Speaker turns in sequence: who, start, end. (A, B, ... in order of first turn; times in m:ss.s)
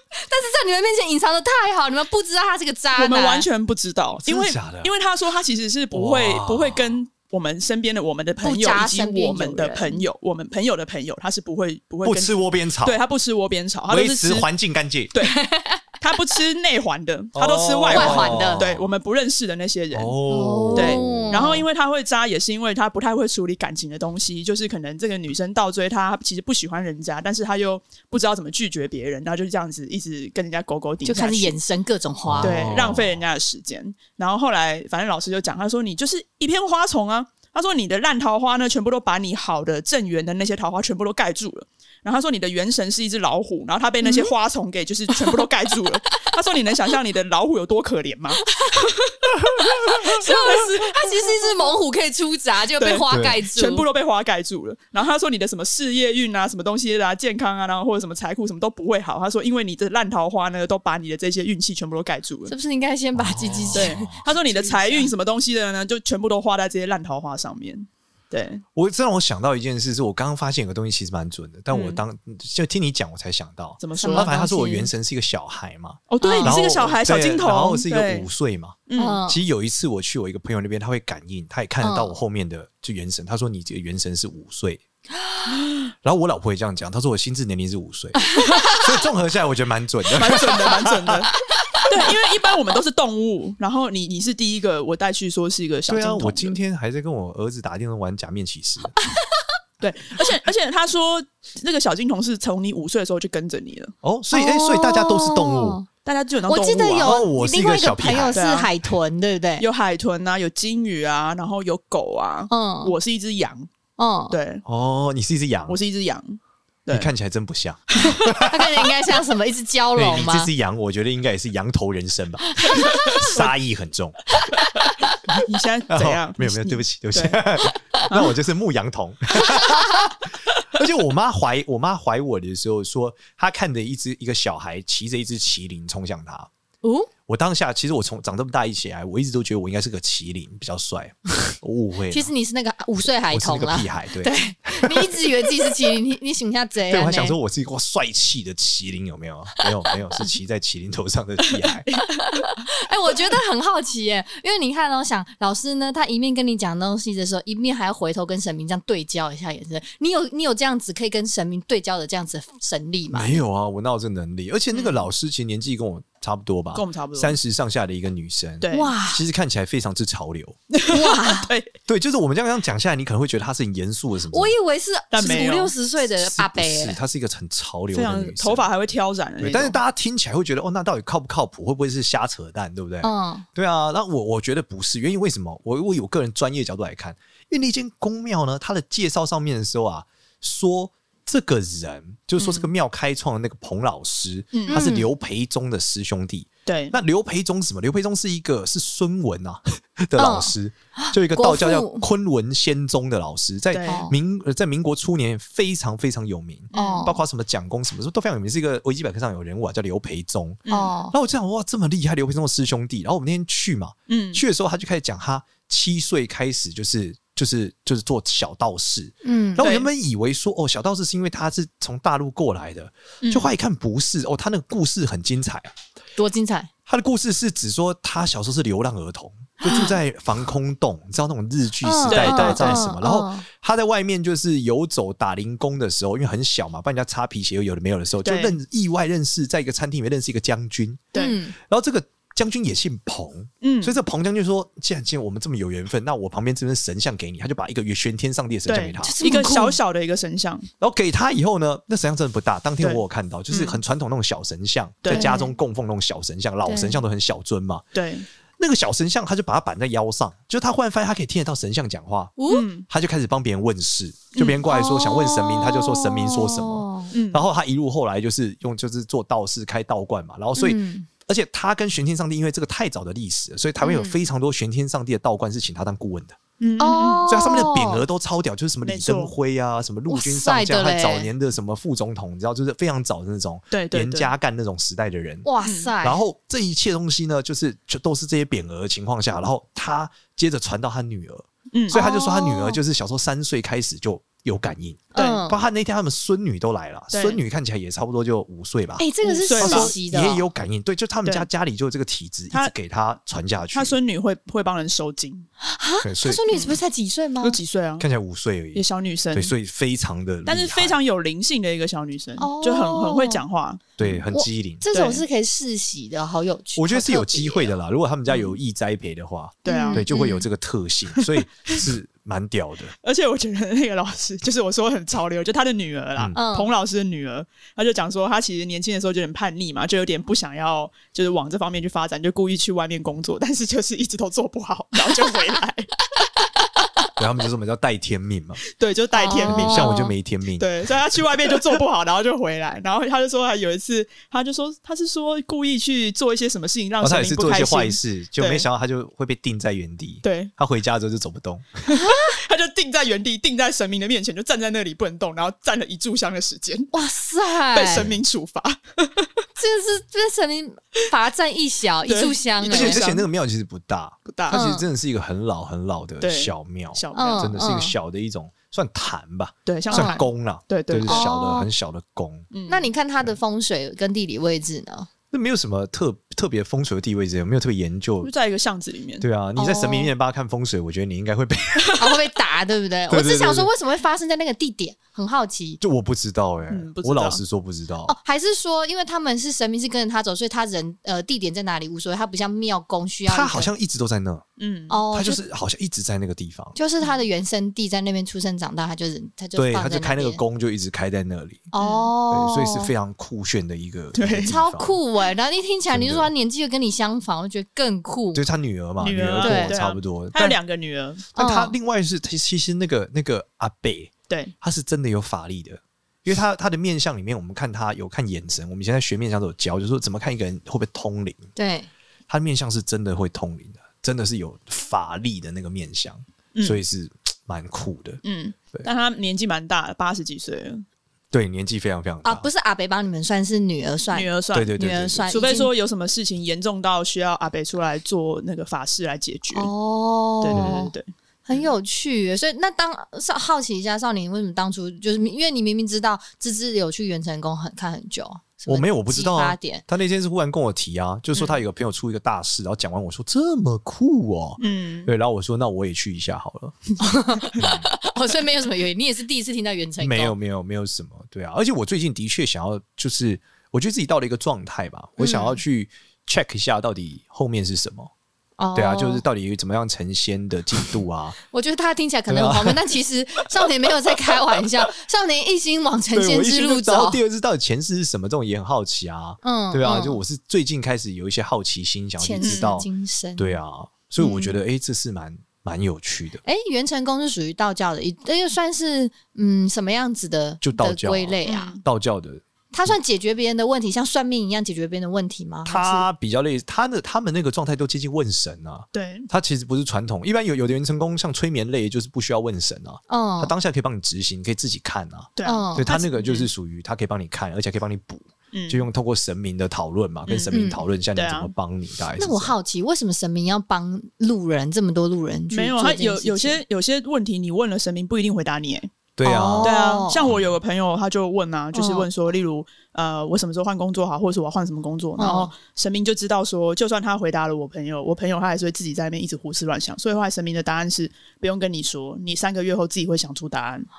0:00.3-0:03.4 A
0:02.9-0:14.5 B
0:04.2-0:04.9 C
0:05.9-0:07.0 C
0:08.4-0:10.0 A
0:12.0-0:13.0 C
0:13.9-0:15.1 C
0:15.1-0:15.4 B
0:15.2-0:15.8 A
0:16.0-0:20.2 B
0:17.3-0:18.9 C
0:17.9-0:18.7 A
0:19.9-0:21.6 C
0:20.3-0:21.6 A
0:20.7-0:31.5 B
0:31.0-0:32.7 A
0:32.3-0:33.2 C
0:32.4-0:51.5 B
0:44.0-0:44.3 A
0:49.7-0:53.8 A
0:52.8-1:02.5 B
0:53.1-0:53.4 C
1:02.5-1:05.1 A
1:03.1-1:04.2 C
1:03.7-1:08.6 B
1:08.7-1:24.8 C
1:11.7-1:12.0 B
1:13.8-1:14.3 B
1:14.0-1:14.9 A
1:16.1-1:18.3 B
1:16.2-1:16.6 A
1:18.9-1:19.2 B
1:19.0-1:19.4 A
1:21.8-1:22.2 A
1:26.0-1:31.2 C
1:28.3-1:28.9 A
1:28.4-1:28.8 B
1:30.1-1:31.3 B
1:31.9-1:36.6 B
1:35.9-1:38.9 C
1:39.8-1:43.9 B
1:44.0-1:45.8 C
1:44.3-1:45.8 A
1:46.0-1:47.3 B
1:46.5-1:49.6 A
1:47.0-1:48.4 C
1:48.3-1:48.7 B
1:49.6-1:53.7 B
1:52.5-1:52.9 A
1:54.0-1:54.4 A
1:54.3-1:54.6 B
1:54.6-1:55.8 C
1:55.7-1:57.1 B
1:56.9-1:58.9 C
1:58.3-2:00.5 A
1:59.9-2:04.2 C
2:02.7-2:03.2 A
2:02.7-2:03.5 B
2:05.3-2:07.4 B
2:05.9-2:10.2 C
2:10.7-2:16.5 C
2:16.8-2:17.1 A
2:17.3-2:22.3 C
2:22.1-2:27.4 A
2:23.3-2:25.5 C
2:26.9-2:31.9 C
2:31.9-2:32.5 B
2:32.2-2:43.4 A
2:43.1-2:50.6 C
2:44.7-2:45.0 B
2:46.7-2:47.4 B
2:48.6-2:48.9 B
2:48.7-2:49.2 A
2:50.7-2:51.7 B
2:50.9-2:51.5 A
2:51.9-2:54.5 C
2:54.3-2:57.0 A
2:55.1-2:55.7 B
2:56.2-2:58.7 C
2:57.9-2:59.8 B
2:59.4-3:45.7 C
3:03.0-3:03.4 A
3:14.5-3:14.8 B
3:14.7-3:15.1 A
3:16.6-3:17.0 B
3:20.2-3:22.1 A
3:23.7-3:24.1 B
3:23.9-3:24.1 A
3:26.7-3:27.1 B
3:26.7-3:27.2 A
3:30.6-3:30.9 B
3:30.7-3:31.1 A
3:34.1-3:34.4 B
3:39.2-3:39.6 A
3:39.6-3:39.9 B
3:43.2-3:43.5 B
3:46.2-3:46.7 A
3:46.9-4:09.2 C
3:49.6-3:49.9 A
3:51.8-3:53.4 A
3:52.0-3:52.8 B
3:58.2-3:58.6 B
4:01.2-4:01.6 A
4:03.6-4:04.0 B
4:08.7-4:10.7 B
4:09.0-4:09.8 A
4:10.8-4:18.0 C
4:12.8-4:13.8 B
4:15.0-4:15.3 B
4:15.1-4:15.5 A
4:16.6-4:17.0 A
4:17.9-4:18.3 B
4:18.6-4:22.4 C
4:22.4-4:22.7 A
4:22.5-4:22.8 B
4:22.9-4:36.4 C
4:24.6-4:27.1 A
4:27.1-4:27.5 B
4:30.6-4:31.1 A
4:33.8-4:34.2 A
4:36.6-4:37.2 B
4:36.8-4:38.0 A
4:37.3-4:45.5 C
4:38.8-4:39.3 B
4:40.1-4:41.3 A
4:43.7-4:44.3 B
4:45.4-4:46.2 A
4:45.6-4:45.9 B
4:46.0-5:04.0 C
4:51.7-4:52.0 B
4:51.9-4:52.8 A
4:55.1-4:55.5 B
4:55.1-4:55.6 A
4:57.1-4:57.4 B
4:59.0-5:00.4 A
4:59.2-5:00.0 B
5:03.7-5:05.5 B
5:05.7-5:07.6 A
5:06.0-5:06.4 C
5:06.5-5:06.8 B
5:07.4-5:08.0 B
5:08.0-5:11.0 C
5:08.7-5:09.5 B
5:10.4-5:14.2 B
5:12.4-5:13.4 A
5:14.0-5:14.8 C
5:14.3-5:17.7 A
5:14.9-5:15.2 B
5:16.8-5:22.9 C
5:19.6-5:20.0 B
5:19.7-5:20.4 A
5:21.2-5:21.8 B
5:23.0-5:35.9 B
5:26.3-5:26.7 A
5:37.2-5:38.6 C
5:38.7-5:40.0 B
5:39.2-5:40.1 A
5:39.4-5:40.7 C
5:40.6-5:48.7 B
5:47.0-5:51.8 C
5:50.2-5:50.5 B
5:51.9-5:56.9 B
5:52.1-5:52.3 A
5:56.9-5:58.0 A
5:57.7-5:59.3 B
5:57.9-5:58.2 C
5:59.6-6:03.0 A
6:02.0-6:03.3 B
6:02.6-6:12.5 C
6:04.2-6:04.6 B
6:04.5-6:04.8 A
6:06.2-6:07.5 B
6:07.1-6:07.9 A
6:09.6-6:11.3 B
6:09.9-6:10.2 A
6:11.0-6:11.7 A
6:12.5-6:12.9 B
6:12.7-6:15.1 A
6:15.3-6:18.3 C
6:18.2-6:19.2 B
6:19.2-6:22.0 C
6:19.6-6:20.1 A
6:21.8-6:22.2 B
6:22.0-6:25.8 A
6:23.1-6:23.7 C
6:25.8-6:28.1 C
6:26.7-6:27.4 B
6:28.0-6:33.7 A
6:33.2-6:34.4 C
6:34.6-6:35.0 B
6:34.9-6:35.4 A
6:35.1-6:36.8 C
6:36.8-6:40.4 A
6:39.6-6:41.7 C
6:41.7-6:42.9 A
6:41.8-6:42.1 B
6:42.3-6:44.9 C
6:44.1-6:44.5 B
6:44.4-6:48.4 A
6:45.9-6:46.3 C
6:48.3-6:50.6 C
6:49.0-6:51.2 B
6:49.4-6:49.8 A
6:51.3-7:01.4 C
6:51.4-6:51.7 A
7:01.6-7:01.9 A
7:02.3-7:08.2 C
7:06.5-7:06.8 B
7:08.2-7:10.8 B
7:11.3-7:12.5 C
7:12.2-7:15.7 A
7:14.1-7:14.8 B
7:14.5-7:15.4 C
7:15.3-7:19.7 B
7:19.5-7:20.9 A
7:20.4-7:21.7 B
7:20.5-7:20.9 C
7:21.4-7:29.8 A
7:28.7-7:36.8 C
7:34.6-7:35.1 B
7:37.0-7:40.3 A
7:37.6-7:37.9 C
7:40.0-7:48.1 C
7:45.2-7:45.6 A
7:48.6-7:49.2 A
7:48.7-7:51.4 C
7:51.5-7:57.2 A
7:52.3-7:52.8 C
7:56.1-8:06.4 C
7:59.4-8:00.2 A
8:02.2-8:03.6 A
8:02.4-8:02.8 B
8:04.2-8:04.6 B
8:06.4-8:11.8 A
8:10.6-8:13.0 C
8:11.4-8:11.8 B
8:12.7-8:16.1 A
8:15.6-8:32.5 C
8:18.9-8:19.3 B
8:23.1-8:23.5 A
8:25.4-8:26.5 B
8:25.4-8:25.9 A
8:28.5-8:28.9 B
8:30.3-8:30.5 B
8:30.5-8:30.8 A
8:31.1-8:31.5 B
8:32.2-8:36.6 A
8:35.5-8:38.9 B
8:39.2-8:40.4 C
8:39.2-8:40.2 A
8:39.6-8:53.9 B
8:41.7-8:42.1 A
8:45.2-8:45.5 A